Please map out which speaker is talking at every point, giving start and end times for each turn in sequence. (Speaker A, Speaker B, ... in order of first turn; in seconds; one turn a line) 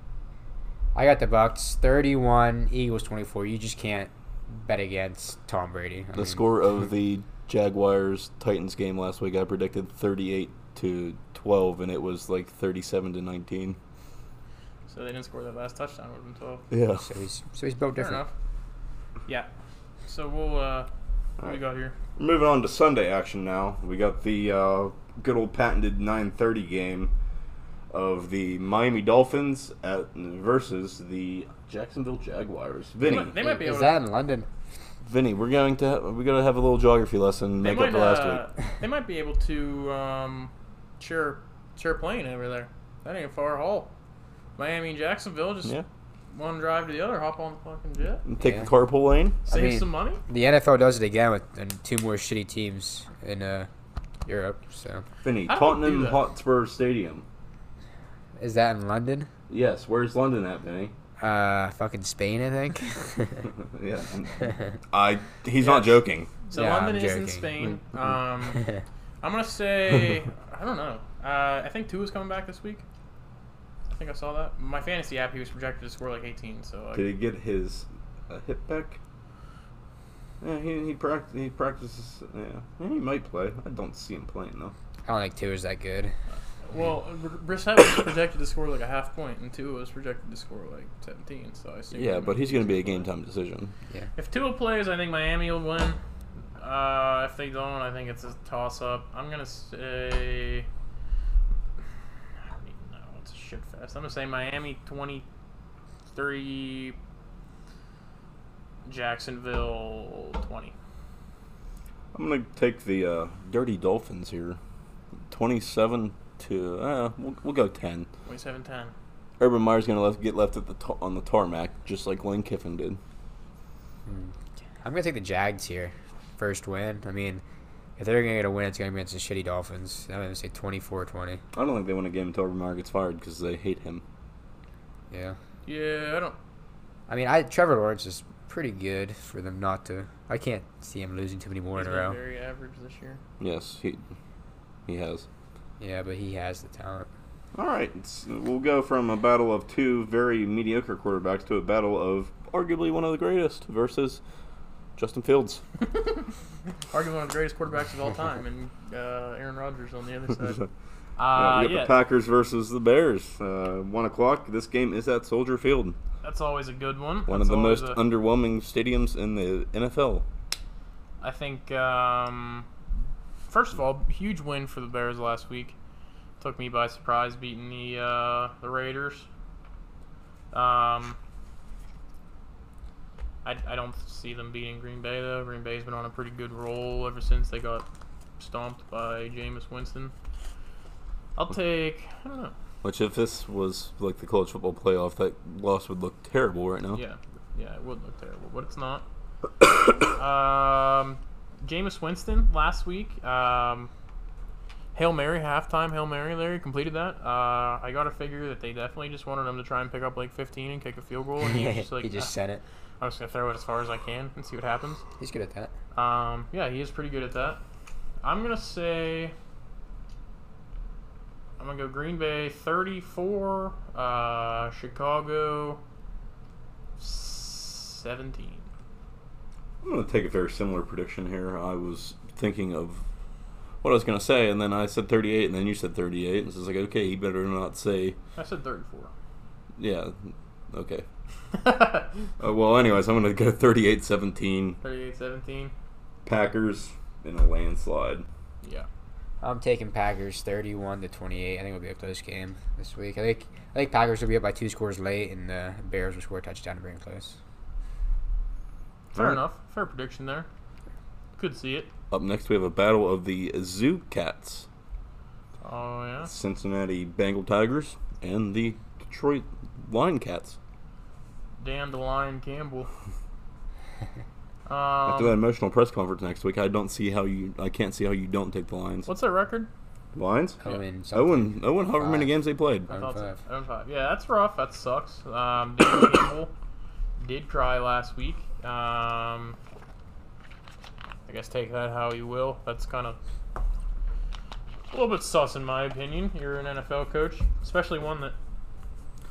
Speaker A: 0.9-6.4
Speaker B: 6.1-13.8
Speaker C: 14.9-16.7
Speaker B: 16.7-17.1
Speaker A: 17.0-18.2
Speaker C: 18.0-18.3
Speaker C: 20.1-20.9
Speaker C: 21.4-22.0
Speaker B: 22.2-27.1
Speaker B: 27.9-33.3
Speaker C: 33.0-34.0
Speaker A: 33.1-34.5
Speaker B: 35.0-38.5
Speaker C: 37.6-43.9
Speaker C: 44.6-45.8
Speaker C: 46.3-48.2
Speaker B: 48.3-49.4
Speaker A: 48.4-48.7
Speaker C: 49.5-50.2
Speaker A: 49.5-53.7
Speaker A: 54.3-55.0
Speaker B: 55.2-57.2
Speaker C: 55.5-56.2
Speaker A: 58.4-59.3
Speaker B: 59.5-60.9
Speaker A: 61.2-63.5
Speaker B: 63.6-66.3
Speaker C: 65.6-68.7
Speaker A: 66.5-67.5
Speaker A: 68.5-68.8
Speaker C: 69.2-72.8
Speaker C: 73.9-77.1
Speaker B: 76.9-79.0
Speaker B: 80.4-84.7
Speaker A: 85.1-86.1
Speaker C: 86.3-93.1
Speaker B: 91.9-93.7
Speaker C: 94.2-96.0
Speaker C: 96.6-100.7
Speaker C: 102.5-105.2
Speaker C: 106.1-107.0
Speaker C: 108.9-110.7
Speaker B: 112.1-114.6
Speaker B: 115.3-118.1
Speaker C: 118.2-118.9
Speaker B: 119.4-123.0
Speaker A: 124.1-127.4
Speaker A: 128.0-131.4
Speaker B: 131.6-134.0
Speaker A: 135.1-135.4
Speaker C: 135.7-136.4
Speaker A: 137.1-142.2
Speaker C: 141.8-143.2
Speaker B: 143.4-144.0
Speaker B: 144.9-145.3
Speaker A: 145.8-147.1
Speaker B: 147.5-154.2
Speaker B: 155.0-155.6
Speaker C: 156.0-156.2
Speaker C: 156.9-160.6
Speaker C: 161.2-162.0
Speaker B: 161.3-166.0
Speaker C: 166.2-168.0
Speaker B: 167.3-170.2
Speaker C: 171.2-172.7
Speaker C: 173.5-175.8
Speaker C: 176.4-179.3
Speaker C: 180.5-181.2
Speaker C: 183.4-187.9
Speaker C: 188.4-190.1
Speaker C: 191.4-192.5
Speaker B: 192.8-197.0
Speaker C: 196.9-199.1
Speaker C: 200.1-203.9
Speaker C: 204.9-212.3
Speaker A: 211.4-212.6
Speaker C: 213.0-215.0
Speaker A: 215.2-215.7
Speaker C: 215.9-217.6
Speaker C: 218.2-219.3
Speaker C: 221.6-225.8
Speaker C: 227.0-228.7
Speaker B: 229.8-233.1
Speaker B: 233.8-238.2
Speaker C: 238.4-239.1
Speaker B: 239.8-241.1
Speaker C: 241.5-242.2
Speaker B: 242.4-244.8
Speaker C: 244.8-245.7
Speaker B: 246.3-248.2
Speaker A: 249.4-257.4
Speaker B: 259.1-259.4
Speaker C: 259.1-260.5
Speaker C: 261.4-261.9
Speaker B: 262.1-264.7
Speaker C: 265.6-266.3
Speaker B: 266.2-270.6
Speaker C: 271.6-272.9
Speaker C: 274.7-275.4
Speaker B: 275.1-279.1
Speaker C: 279.1-279.7
Speaker B: 280.1-280.6
Speaker A: 280.6-282.3
Speaker B: 281.1-282.9
Speaker A: 282.9-283.4
Speaker C: 282.9-286.5
Speaker C: 287.2-289.6
Speaker C: 291.3-293.2
Speaker C: 294.9-298.4